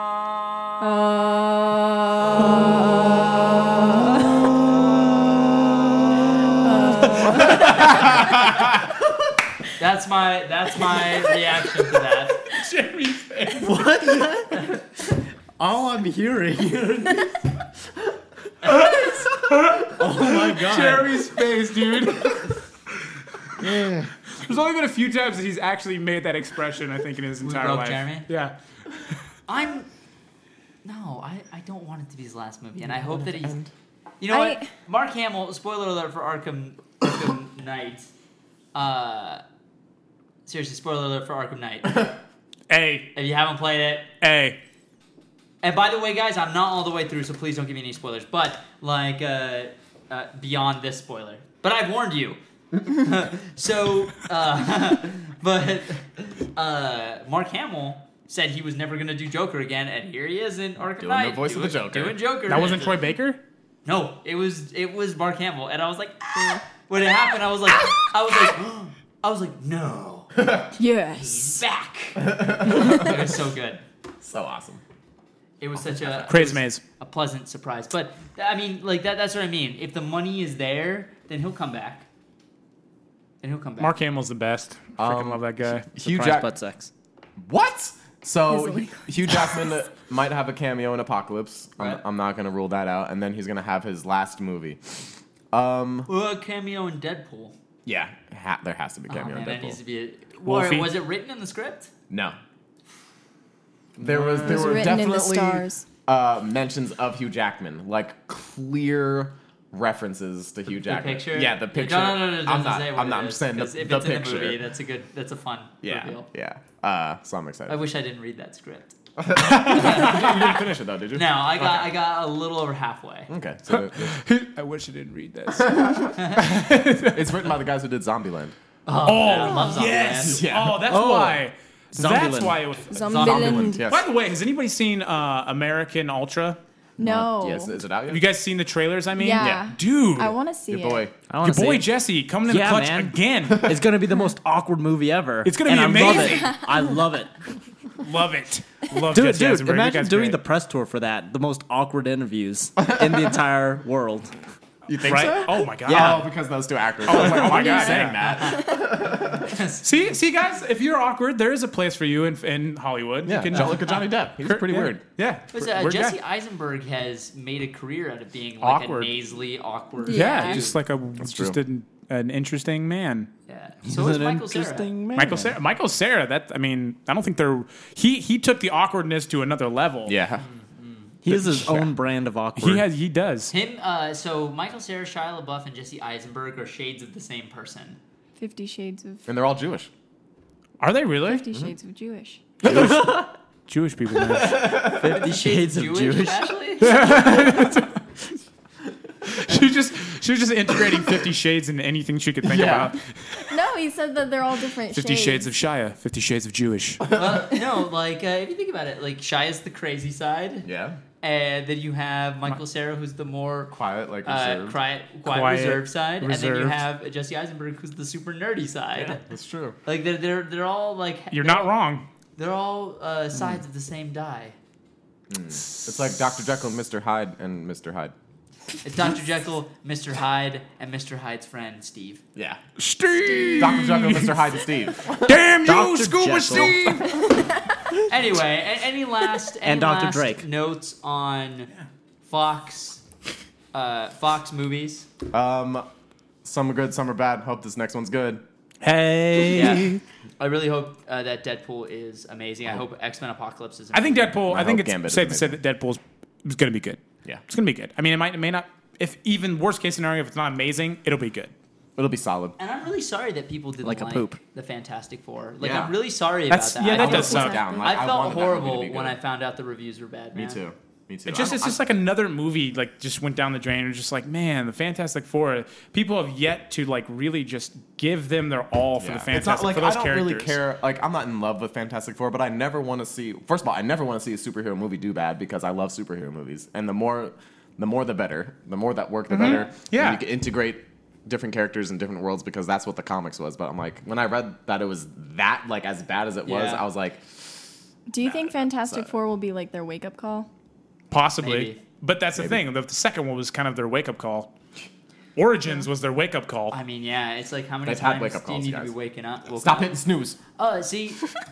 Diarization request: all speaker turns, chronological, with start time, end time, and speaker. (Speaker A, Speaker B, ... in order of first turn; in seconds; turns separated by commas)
Speaker A: 0.8-4.4, Speaker A: 6.6-8.1, Speaker B: 9.8-12.4, Speaker C: 12.5-13.8, Speaker D: 13.6-14.8, Speaker D: 15.6-17.3, Speaker C: 18.6-22.6, Speaker D: 19.9-21.1, Speaker E: 22.0-22.4, Speaker D: 23.6-24.1, Speaker C: 24.3-28.5, Speaker B: 27.4-28.3, Speaker B: 29.5-29.9, Speaker B: 30.8-33.5, Speaker E: 32.9-33.7, Speaker B: 34.2-38.1, Speaker A: 34.3-34.7, Speaker B: 38.7-39.4, Speaker B: 40.5-42.1, Speaker C: 42.7-43.1, Speaker B: 43.1-44.1, Speaker C: 44.2-44.6, Speaker B: 45.6-63.1, Speaker E: 61.0-62.2, Speaker C: 62.5-63.4, Speaker B: 63.9-70.4, Speaker E: 70.3-70.7, Speaker A: 70.8-71.6, Speaker B: 71.2-73.8, Speaker E: 72.2-73.4, Speaker E: 74.2-74.8, Speaker B: 75.6-82.0, Speaker E: 75.8-76.3, Speaker C: 76.3-76.8, Speaker B: 83.4-83.9, Speaker C: 83.8-85.9, Speaker E: 85.0-86.5, Speaker D: 86.0-86.9, Speaker E: 87.4-96.1, Speaker A: 88.5-89.7, Speaker B: 96.1-97.5, Speaker E: 97.8-99.8, Speaker B: 99.1-101.9, Speaker C: 100.4-100.9, Speaker E: 102.1-102.4, Speaker E: 104.0-114.6, Speaker C: 104.0-104.8, Speaker A: 104.4-105.8, Speaker B: 110.8-116.3, Speaker E: 115.8-117.8, Speaker B: 117.7-119.0, Speaker E: 119.2-121.9, Speaker B: 119.5-120.6, Speaker B: 121.1-123.3, Speaker E: 123.3-124.2, Speaker C: 123.7-127.4, Speaker E: 125.6-126.1, Speaker B: 126.2-126.4, Speaker E: 127.0-128.5, Speaker B: 128.8-130.4, Speaker C: 129.0-136.6, Speaker A: 129.5-129.8, Speaker E: 130.2-130.8, Speaker D: 130.8-131.4, Speaker D: 131.9-132.6, Speaker A: 132.9-133.9, Speaker B: 133.0-133.6, Speaker E: 133.1-134.1, Speaker A: 137.0-137.8, Speaker E: 137.0-138.3, Speaker C: 138.1-140.3, Speaker A: 139.1-141.1, Speaker E: 140.7-141.1, Speaker D: 141.3-141.9, Speaker C: 141.4-143.7, Speaker D: 142.4-147.3, Speaker E: 143.5-143.8, Speaker C: 145.4-146.6, Speaker C: 148.0-150.4, Speaker D: 149.1-154.3, Speaker E: 153.0-153.3, Speaker E: 154.8-159.6, Speaker C: 155.0-156.3, Speaker D: 155.8-156.2, Speaker C: 157.0-158.2, Speaker A: 157.5-158.1, Speaker B: 158.2-158.8, Speaker B: 159.4-160.1, Speaker C: 159.8-166.2, Speaker E: 163.2-165.0, Speaker B: 163.5-164.0, Speaker B: 165.5-170.8, Speaker C: 168.6-169.2, Speaker A: 170.0-170.6, Speaker C: 170.1-173.3, Speaker E: 171.2-171.6, Speaker B: 173.5-174.9, Speaker D: 173.8-175.5, Speaker C: 175.2-180.1, Speaker E: 180.1-180.4, Speaker B: 180.4-181.2, Speaker D: 181.2-182.8, Speaker C: 181.3-181.9, Speaker C: 182.6-183.5, Speaker B: 183.5-188.0, Speaker A: 188.4-189.2, Speaker E: 189.3-189.9, Speaker C: 190.8-191.4, Speaker A: 191.2-192.4, Speaker C: 192.6-194.6, Speaker D: 192.7-193.3, Speaker E: 192.7-192.9, Speaker E: 194.2-195.2, Speaker D: 194.8-196.5, Speaker B: 195.1-196.9, Speaker C: 196.8-198.1, Speaker C: 199.2-203.5, Speaker E: 202.4-202.9, Speaker A: 203.5-205.5, Speaker C: 204.9-207.0, Speaker B: 207.1-210.7, Speaker E: 210.6-211.0, Speaker B: 211.2-219.2, Speaker E: 213.7-214.8, Speaker C: 215.2-216.8, Speaker E: 218.9-219.8, Speaker B: 219.8-221.7, Speaker C: 221.3-222.1, Speaker B: 222.4-224.6, Speaker E: 225.3-228.1, Speaker B: 228.8-232.2, Speaker E: 232.3-232.6, Speaker C: 232.8-237.4, Speaker E: 233.6-235.5, Speaker D: 235.6-237.0, Speaker A: 237.0-237.8, Speaker B: 238.1-241.7, Speaker D: 239.6-240.4, Speaker B: 242.2-243.0, Speaker B: 243.7-245.1, Speaker E: 245.3-245.8, Speaker E: 246.4-248.4, Speaker C: 248.8-250.0, Speaker B: 249.5-254.4, Speaker C: 253.9-261.5, Speaker E: 254.5-255.6, Speaker E: 261.9-262.6, Speaker B: 262.6-270.6, Speaker D: 263.8-264.4, Speaker E: 265.6-265.9, Speaker C: 266.5-267.6, Speaker A: 266.9-268.0, Speaker E: 266.9-269.2, Speaker E: 270.3-271.8, Speaker C: 271.3-280.6, Speaker E: 279.0-297.4, Speaker C: 289.3-290.2, Speaker B: 296.4-296.9, Speaker A: 298.1-300.5, Speaker E: 298.2-299.1, Speaker C: 301.1-304.5, Speaker B: 301.4-301.8, Speaker E: 302.3-302.6, Speaker C: 305.4-306.8, Speaker B: 306.7-310.0, Speaker E: 307.8-308.9, Speaker E: 309.4-310.4, Speaker B: 310.6-311.3